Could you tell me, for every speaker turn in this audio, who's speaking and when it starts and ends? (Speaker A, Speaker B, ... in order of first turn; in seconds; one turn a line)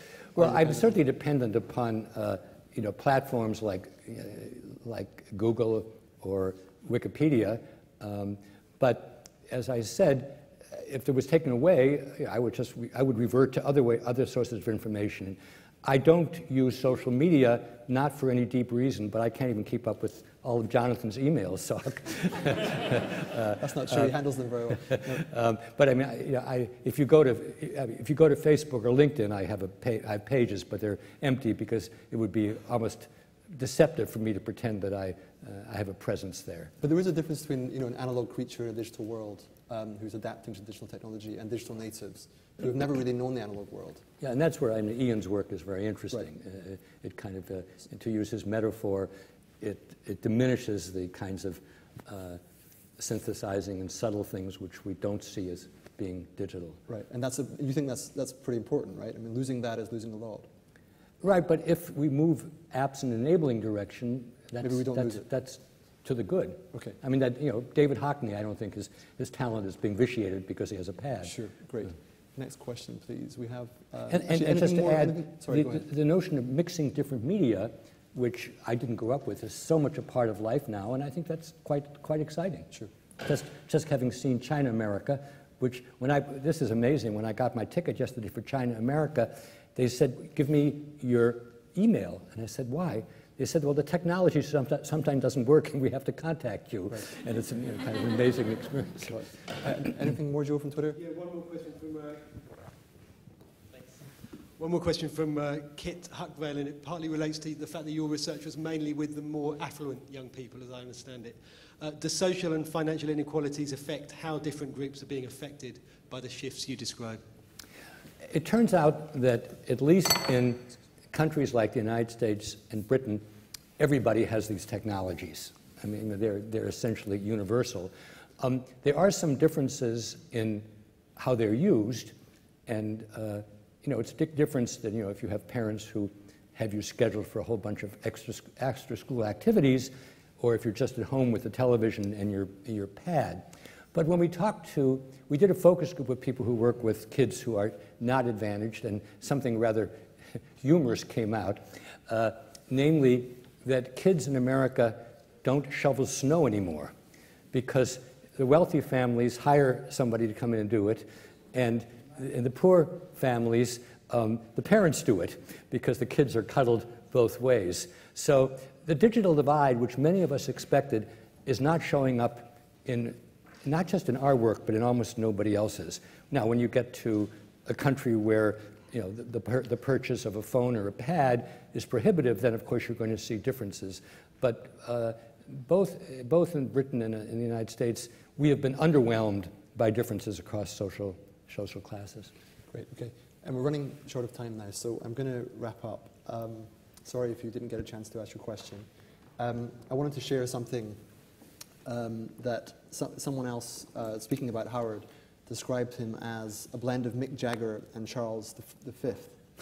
Speaker A: 0.3-1.0
Speaker B: 0.3-24.2
Speaker A: 23.6-25.2
Speaker B: 24.7-36.7
Speaker A: 36.8-44.0
Speaker B: 44.2-52.4
Speaker B: 53.0-56.8
Speaker A: 56.9-60.5
Speaker B: 61.2-71.3
Speaker A: 64.6-65.3
Speaker A: 71.2-75.8
Speaker B: 74.1-82.7
Speaker B: 83.2-99.2
Speaker A: 99.1-101.0
Speaker C: 100.9-102.5
Speaker C: 103.7-117.2
Speaker B: 118.2-123.2
Speaker B: 123.8-132.1
Speaker B: 132.7-150.0
Speaker B: 150.6-156.9
Speaker B: 157.5-192.3
Speaker A: 192.7-198.9
Speaker A: 199.4-201.0
Speaker A: 201.8-209.4